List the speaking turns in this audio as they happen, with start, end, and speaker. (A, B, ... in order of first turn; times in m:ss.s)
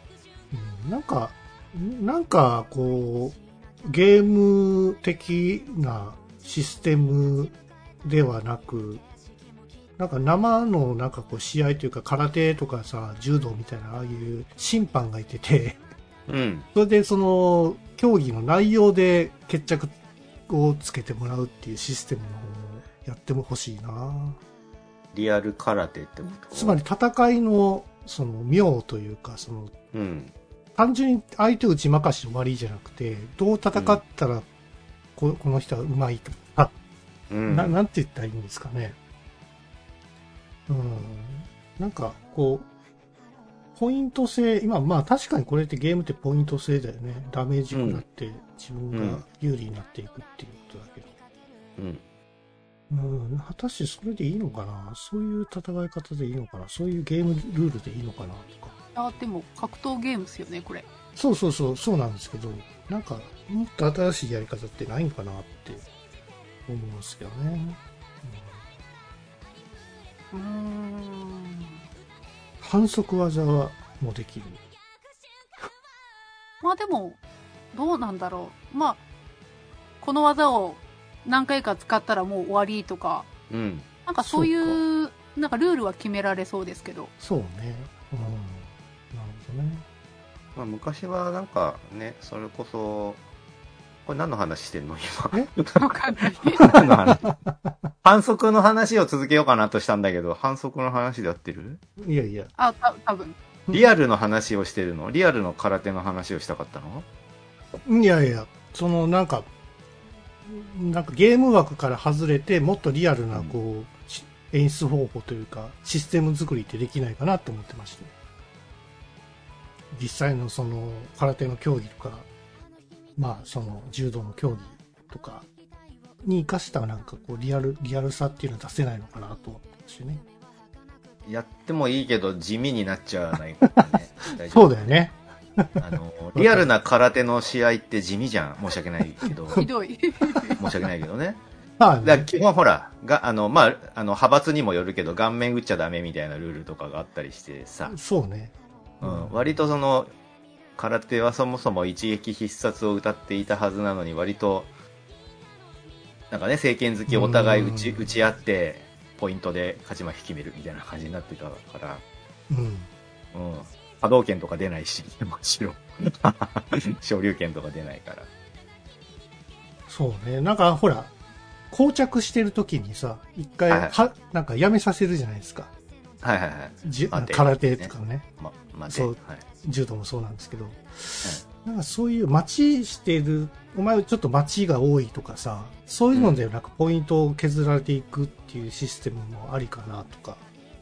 0:00.5-0:09.0 A
0:10.0-0:15.8 A
0:16.3-0:16.6 B
0:16.7-0:19.9 A
0:20.5-0:24.4 A
0:25.1-0:26.8 B
0:26.5-0:29.7 A
0:29.9-0:30.3 B
0:30.8-0:34.4 A
0:33.7-0:34.0 B
0:35.2-0:36.7 A
0:37.3-0:37.8 B
0:37.5-0:39.0 A
0:40.7-0:42.7 A
0:43.7-0:51.1 A
0:47.7-0:48.0 B
0:48.9-0:49.2 B
0:51.8-0:52.0 B
0:52.9-0:58.7 A
0:58.9-1:00.8 C
1:01.2-1:05.8 A
1:06.7-1:08.6 A
1:10.3-1:11.8 C
1:12.6-1:14.6 A
1:16.6-1:17.2 C
1:17.7-1:19.0 C
1:20.0-1:23.3 C
1:23.5-1:23.9 B
1:24.0-1:27.1 C
1:24.2-1:24.8 A
1:27.2-1:29.8 A
1:30.6-1:33.2 B
1:34.0-1:36.0 B
1:35.8-1:36.8 C
1:36.5-1:37.4 B
1:36.6-1:37.9 A
1:38.0-1:41.8 B
1:42.0-1:42.5 A
1:42.6-1:43.4 C
1:43.7-1:47.0 B
1:47.8-1:49.5 A
1:50.4-1:58.1 A
1:59.9-2:02.3 A
2:03.2-2:05.4 A
2:06.2-2:10.2 A
2:11.3-2:15.0 B
2:14.5-2:16.7 A
2:15.8-2:19.6 B
2:19.6-2:20.6 C
2:20.6-2:21.4 B
2:21.8-2:22.3 A
2:22.0-2:28.0 B
2:27.9-2:29.5 A
2:29.0-2:30.1 B
2:30.8-2:34.7 B
2:36.3-2:42.0 B
2:37.1-2:38.2 A
2:42.5-2:42.9 A
2:43.3-2:48.3 B
2:49.9-2:51.1 A
2:51.7-2:55.7 A
2:53.7-2:54.0 B
2:56.2-2:59.4 B
2:56.8-2:58.2 A
2:58.9-3:10.4 A
3:06.1-3:06.4 B